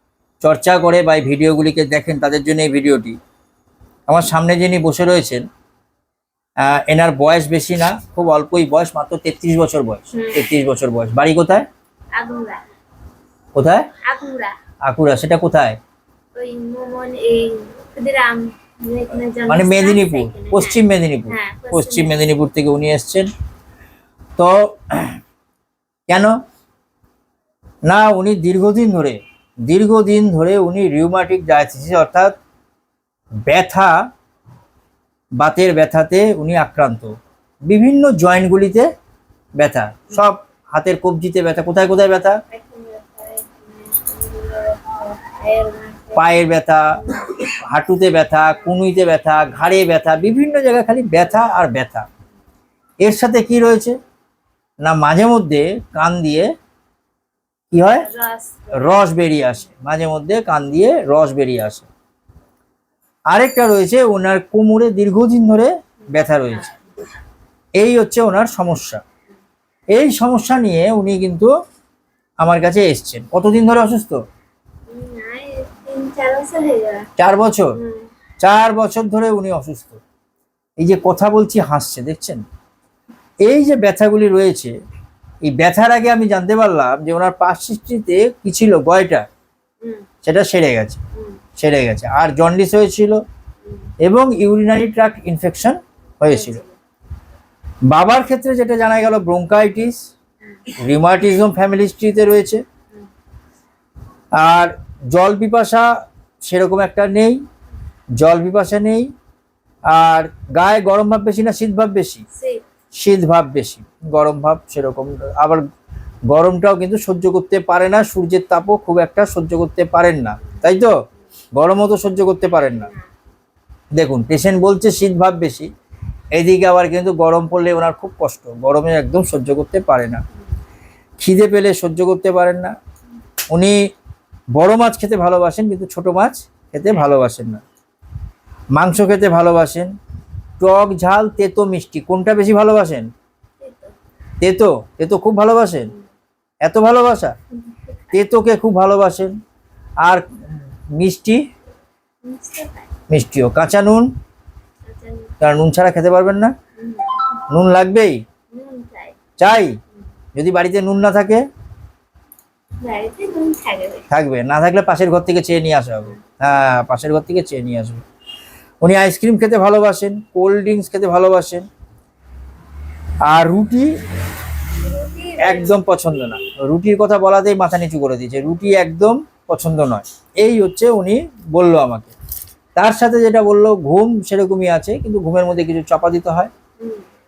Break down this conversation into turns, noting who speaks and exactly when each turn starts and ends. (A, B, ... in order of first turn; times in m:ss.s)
0:00.4-0:03.2 A
0:04.1-0:05.4 A
0:06.6-0:11.6 A
0:10.1-0:10.4 B
0:12.1-0:12.6 B
0:13.5-0:13.9 A
0:14.0-0:14.5 B
0:14.9-0:15.8 A
0:16.3-0:22.2 B
0:19.5-0:23.3 A
0:24.4-0:25.2 A
0:26.1-0:26.4 A
0:27.8-0:32.3 A
0:33.5-0:34.0 A
0:35.4-0:37.1 A
0:37.7-0:38.8 A
0:39.6-0:42.4 A
0:42.5-0:46.3 B
0:46.1-0:47.0 A
0:47.0-0:47.4 B
0:47.7-0:52.1 A
0:53.0-0:54.0 A
0:54.8-0:56.5 A
0:57.7-0:58.1 A
0:57.9-0:59.0 B
0:58.7-1:01.9 A
1:03.3-1:06.7 A
1:06.2-1:06.6 B
1:07.8-1:09.0 A
1:09.9-1:11.5 A
1:12.4-1:14.2 A
1:14.9-1:17.1 B
1:17.2-1:17.8 A
1:17.8-1:18.1 B
1:18.4-1:20.0 A
1:20.8-1:22.4 A
1:23.4-1:24.7 A
1:25.4-1:29.2 A
1:30.2-1:31.0 A
1:31.1-1:31.4 B
1:31.6-1:33.2 A
1:33.6-1:33.9 B
1:34.0-1:36.6 A
1:36.3-1:36.8 B
1:37.9-1:40.0 A
1:40.8-1:42.6 A
1:44.4-1:45.9 A
1:46.4-1:47.4 A
1:48.2-1:49.1 A
1:49.9-1:52.2 A
1:52.3-1:52.6 B
1:53.0-1:55.6 A
1:56.3-2:00.9 A
2:01.6-2:02.9 A
2:02.5-2:03.1 B
2:04.0-2:05.7 A
2:06.4-2:10.2 A
2:11.2-2:12.8 A
2:13.5-2:13.8 A
2:14.5-2:17.6 A
2:18.8-2:19.9 A
2:20.6-2:23.1 A
2:23.6-2:23.9 B
2:24.4-2:25.9 A
2:26.6-2:27.3 A
2:28.1-2:29.3 A
2:30.9-2:31.4 A
2:32.2-2:32.9 B
2:33.1-2:34.1 A
2:34.8-2:35.3 B
2:35.4-2:36.5 A
2:36.8-2:37.2 B
2:37.5-2:38.2 A
2:38.5-2:39.2 B
2:39.4-2:39.8 A
2:40.4-2:41.4 A
2:42.8-2:44.0 B
2:44.1-2:48.0 A
2:48.8-2:51.6 A
2:53.2-2:54.0 A
2:54.8-2:55.8 B
2:55.4-3:02.1 A
3:02.8-3:06.5 A
3:06.8-3:07.0 B